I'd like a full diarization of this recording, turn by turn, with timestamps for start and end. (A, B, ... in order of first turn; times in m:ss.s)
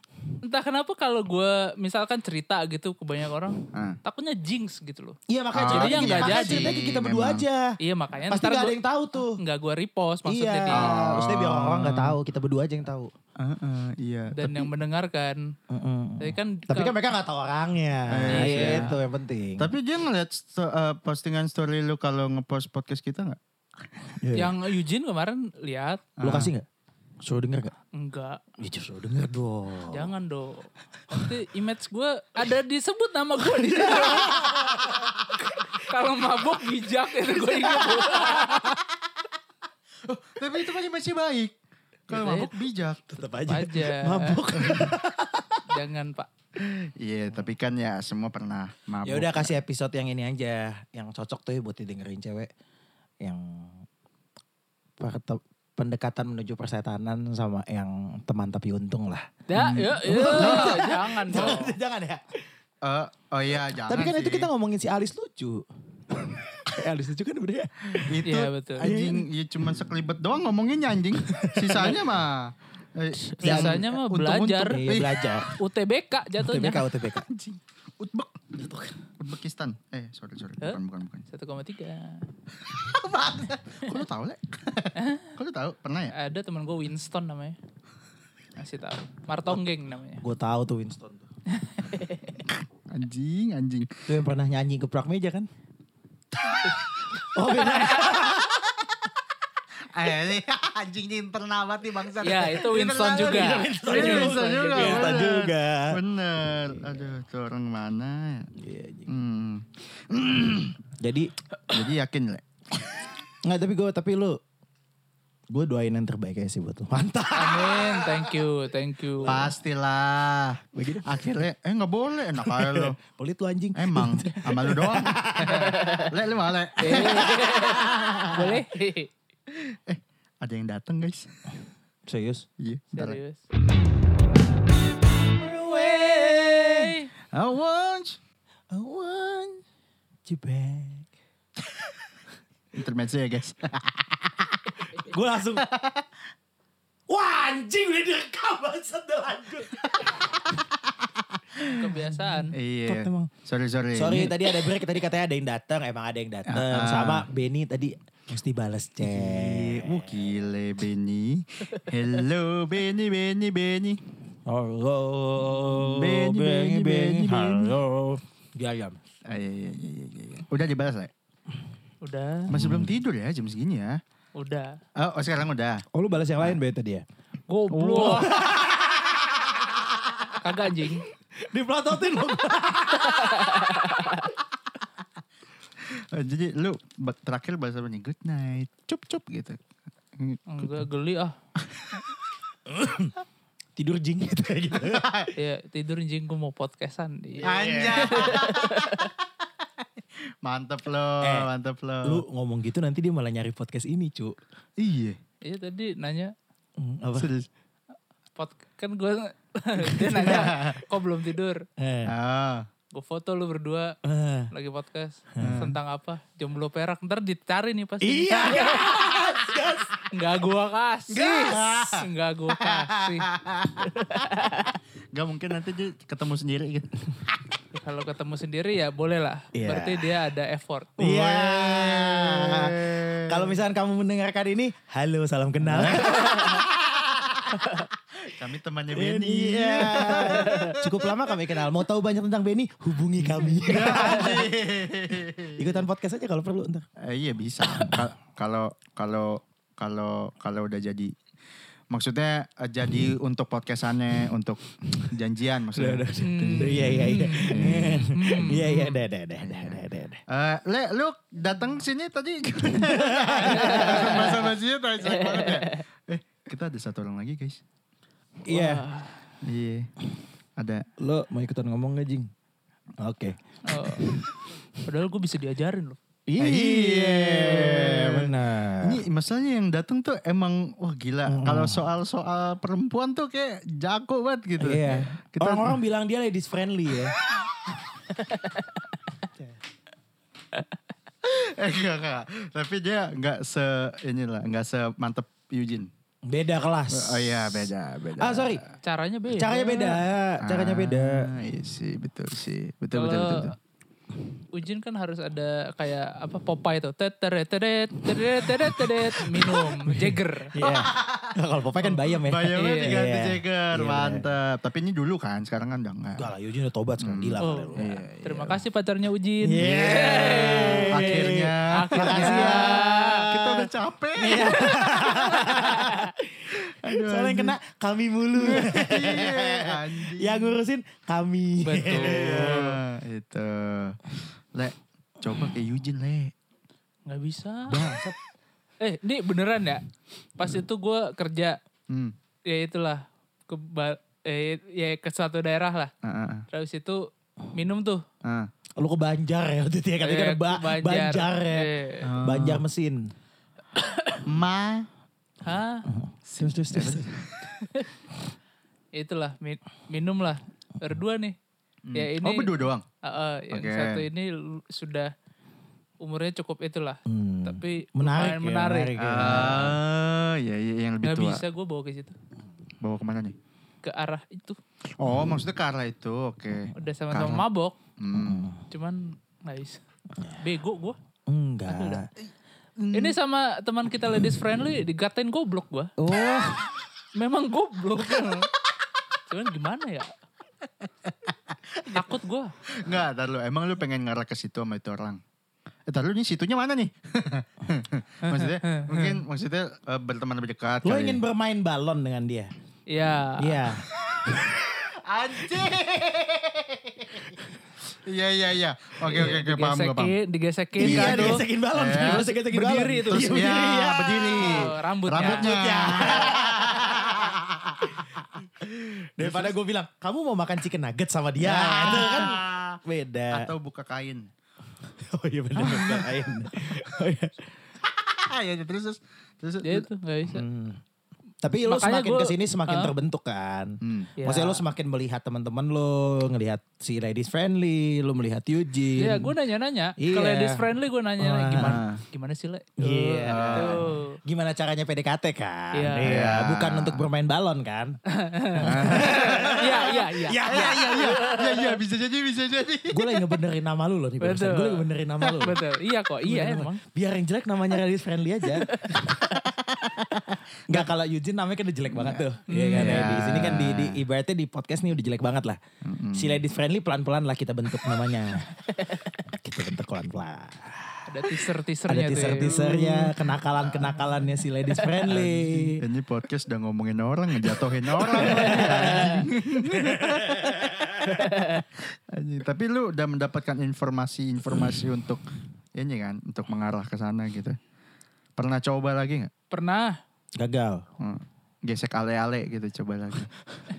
0:00.4-0:06.8 A
0:03.7-0:04.0 B
0:05.3-0:07.7 C
0:05.5-0:07.4 B
0:07.8-0:10.9 A
0:08.3-0:09.4 C
0:10.2-0:13.1 C
0:10.7-0:12.2 B
0:13.4-0:14.7 B
0:14.3-0:15.5 A
0:15.7-0:19.7 C
0:16.2-0:17.0 A
0:18.1-0:18.9 B
0:18.3-0:19.0 A
0:19.6-0:23.4 B
0:24.2-0:24.6 C
0:24.3-0:26.0 A
0:26.2-0:26.5 B
0:26.2-0:26.7 C
0:27.2-0:27.7 C
0:27.9-0:28.4 A
0:28.6-0:30.1 C
0:29.9-0:34.5 A
0:33.6-0:35.1 C
0:35.4-0:38.8 A
0:40.0-0:41.5 B
0:42.1-0:43.1 B
0:42.1-0:42.5 A
0:43.1-0:45.7 C
0:43.5-0:44.4 A
0:44.6-0:44.9 B
0:45.7-0:46.3 A
0:47.0-0:49.5 B
0:49.0-0:52.5 C
0:53.2-0:53.8 C
0:55.0-1:02.3 C
0:59.5-1:01.7 A
0:59.6-1:01.6 B
1:02.8-1:04.5 B
1:03.8-1:08.2 C
1:08.0-1:15.3 B
1:08.2-1:08.9 A
1:08.8-1:09.3 C
1:11.2-1:12.0 C
1:13.4-1:13.9 C
1:13.4-1:14.8 A
1:14.7-1:15.5 C
1:15.6-1:16.8 A
1:16.4-1:17.3 C
1:17.3-1:18.6 B
1:18.6-1:18.9 C
1:19.2-1:21.2 B
1:20.6-1:22.2 A
1:22.6-1:26.1 B
1:25.0-1:25.3 A
1:26.1-1:27.6 A
1:28.6-1:30.2 A
1:30.2-1:31.2 C
1:31.5-1:32.4 A
1:32.5-1:33.9 B
1:34.1-1:35.5 C
1:36.6-1:37.3 B
1:37.2-1:38.6 C
1:37.5-1:38.2 A
1:39.9-1:48.5 B
1:42.2-1:45.3 A
1:43.0-1:46.0 C
1:48.6-1:49.1 C
1:49.1-1:50.8 B
1:51.0-1:51.3 C
1:51.7-1:53.1 B
1:53.4-1:54.4 C
1:55.5-1:58.3 C
1:57.3-1:59.5 A
1:59.2-1:59.5 C
1:59.2-2:03.0 B
2:00.7-2:01.3 C
2:02.4-2:06.0 C
2:03.8-2:08.4 B
2:05.5-2:06.1 A
2:06.8-2:09.1 A
2:06.9-2:08.5 C
2:09.5-2:11.3 B
2:12.1-2:12.4 C
2:12.6-2:13.2 B
2:12.9-2:13.4 A
2:15.3-2:16.9 C
2:15.7-2:17.1 A
2:17.3-2:18.2 B
2:18.7-2:19.6 C
2:20.2-2:21.1 C
2:22.7-2:25.0 B
2:24.9-2:25.6 C
2:25.6-2:26.0 B
2:27.1-2:30.4 C
2:31.7-2:32.5 A
2:32.2-2:33.3 C
2:32.5-2:34.6 B
2:33.9-2:40.3 C
2:36.5-2:37.2 B
2:39.0-2:44.0 B
2:44.4-2:49.0 C
2:45.9-2:47.7 B
2:49.2-2:51.1 B
2:52.0-2:52.5 A
2:52.5-2:54.0 B
2:52.5-2:52.9 C
2:54.3-2:54.8 A
2:55.0-2:55.8 B
2:55.9-2:57.0 C
2:57.5-2:58.4 A
2:57.8-2:58.4 B
2:57.8-3:00.3 C
3:00.4-3:01.0 A
3:01.3-3:04.1 C
3:03.2-3:04.3 A
3:05.8-3:09.6 B
3:10.2-3:10.8 B
3:10.5-3:11.4 A
3:11.7-3:12.0 B
3:12.7-3:13.2 C
3:13.8-3:15.1 C
3:14.8-3:15.3 B
3:15.3-3:19.1 A
3:17.4-3:19.2 B
3:17.4-3:18.5 C
3:20.4-3:22.2 B
3:21.2-3:21.5 C
3:22.0-3:24.4 C
3:24.8-3:25.2 B
3:25.4-3:26.3 A
3:26.8-3:27.3 C
3:27.1-3:27.5 B
3:28.4-3:31.6 A
3:30.0-3:30.6 C
3:30.1-3:30.8 B
3:31.8-3:32.1 C
3:32.0-3:32.7 B
3:32.9-3:34.0 A
3:34.0-3:34.5 C
3:34.5-3:39.3 A
3:35.3-3:35.6 C
3:35.4-3:35.8 B
3:38.0-3:40.1 C
3:40.1-3:43.3 A
3:41.1-3:47.1 B
3:47.7-3:51.0 A
3:49.5-3:50.2 C
3:51.0-3:57.8 C
3:51.0-3:53.6 B
3:55.7-3:56.4 B
3:58.2-4:01.2 B
3:58.9-4:04.5 C
4:00.4-4:00.7 A
4:03.2-4:05.8 B
4:05.6-4:06.8 C
4:07.0-4:11.1 B
4:11.9-4:18.7 B
4:15.7-4:20.2 C
4:16.2-4:19.0 A
4:19.4-4:27.6 B
4:22.7-4:24.5 C
4:23.4-4:24.4 A
4:25.0-4:25.8 A
4:28.4-4:28.8 C
4:28.5-4:29.2 A
4:29.4-4:29.9 B
4:30.6-4:30.8 B
4:31.0-4:32.3 C
4:33.0-4:34.3 C
4:33.6-4:34.2 A
4:34.8-4:36.0 A
4:36.3-4:39.0 C
4:36.4-4:45.8 B
4:41.3-4:41.9 C
4:44.6-4:47.1 C
4:51.2-4:55.9 B
4:56.3-4:58.6 C
4:56.9-4:58.6 B
4:58.8-5:00.0 A
4:59.3-5:01.3 C
5:00.4-5:03.5 B
5:02.9-5:03.5 A
5:04.5-5:10.5 A
5:08.8-5:14.3 C
5:10.6-5:11.4 B
5:12.0-5:16.3 B
5:12.5-5:13.0 A
5:16.2-5:18.0 C
5:17.0-5:18.6 B
5:17.4-5:23.2 A
5:19.4-5:32.8 C
5:19.6-5:25.9 B
5:25.2-5:26.1 A
5:26.5-5:27.6 B
5:28.4-5:30.6 B
5:31.6-5:32.5 A
5:31.8-5:36.3 B
5:37.1-5:38.0 A
5:37.7-5:38.2 C
5:38.8-5:39.8 A
5:40.4-5:41.6 A
5:41.9-5:42.1 B
5:42.5-5:45.9 A
5:46.0-5:46.5 B
5:46.5-5:48.0 A
5:48.2-5:48.5 B
5:48.8-5:53.0 C
5:50.0-5:52.1 A
5:52.0-5:52.6 B
5:53.7-5:54.2 A
5:54.2-5:54.9 B
5:55.4-5:55.8 A
5:55.8-5:57.1 C
5:56.4-5:57.5 B
5:57.6-5:57.9 A
5:58.9-6:01.4 A
6:01.8-6:02.8 B
6:01.9-6:02.5 A
6:03.0-6:05.1 A
6:03.5-6:04.0 B
6:06.0-6:09.0 A
6:07.1-6:09.8 C
6:09.0-6:11.4 B
6:11.0-6:12.2 A
6:12.8-6:13.4 B
6:13.8-6:14.6 A
6:15.0-6:17.4 B
6:16.7-6:17.8 A
6:18.0-6:18.5 B
6:18.1-6:18.6 C
6:18.7-6:19.8 A
6:20.2-6:20.4 C
6:20.4-6:21.0 A
6:21.3-6:22.1 C
6:21.7-6:22.0 A
6:22.8-6:23.2 B
6:22.9-6:25.9 A
6:26.0-6:26.7 C
6:27.1-6:28.5 A
6:29.3-6:30.2 A
6:31.3-6:32.0 B
6:31.9-6:32.5 A
6:32.7-6:35.2 B
6:35.9-6:41.2 B
6:38.2-6:39.2 A
6:40.8-6:42.5 C
6:42.9-6:43.6 A
6:43.4-6:44.8 C
6:43.9-6:47.4 B
6:48.0-6:50.1 B
6:49.0-6:51.4 A
6:50.8-6:52.3 B
6:50.8-6:57.4 C
6:52.0-6:53.4 A
6:53.1-6:58.3 B
6:54.4-6:55.9 A
6:58.0-7:03.5 C
6:59.0-6:59.5 B
7:01.4-7:02.8 B
7:03.3-7:04.3 B
7:04.8-7:07.5 C
7:07.9-7:09.9 B
7:09.6-7:10.4 A
7:10.3-7:10.8 C
7:11.4-7:19.3 C
7:11.6-7:12.9 A
7:13.8-7:14.1 B
7:14.2-7:14.6 A
7:19.0-7:24.2 A
7:20.0-7:21.8 C
7:21.6-7:22.0 B
7:22.8-7:28.0 C
7:23.3-7:23.8 B
7:25.7-7:26.1 A
7:26.0-7:27.0 B
7:28.1-7:31.8 A
7:28.5-7:31.2 C
7:28.6-7:29.9 B
7:30.4-7:33.2 B
7:32.9-7:35.6 C
7:34.2-7:36.8 A
7:36.2-7:39.4 C
7:38.5-7:39.4 A
7:40.7-7:45.6 C
7:41.9-7:44.0 B
7:42.5-7:43.3 A
7:45.8-7:46.4 B
7:46.1-7:55.8 C
7:51.1-7:53.1 A
7:54.6-7:55.4 A
7:55.1-8:05.2 B
7:58.1-8:01.2 C
7:58.2-7:59.2 A
8:01.0-8:01.6 A
8:05.7-8:07.6 B
8:08.4-8:09.3 B
8:09.5-8:10.0 A
8:10.4-8:10.8 C
8:11.0-8:13.3 B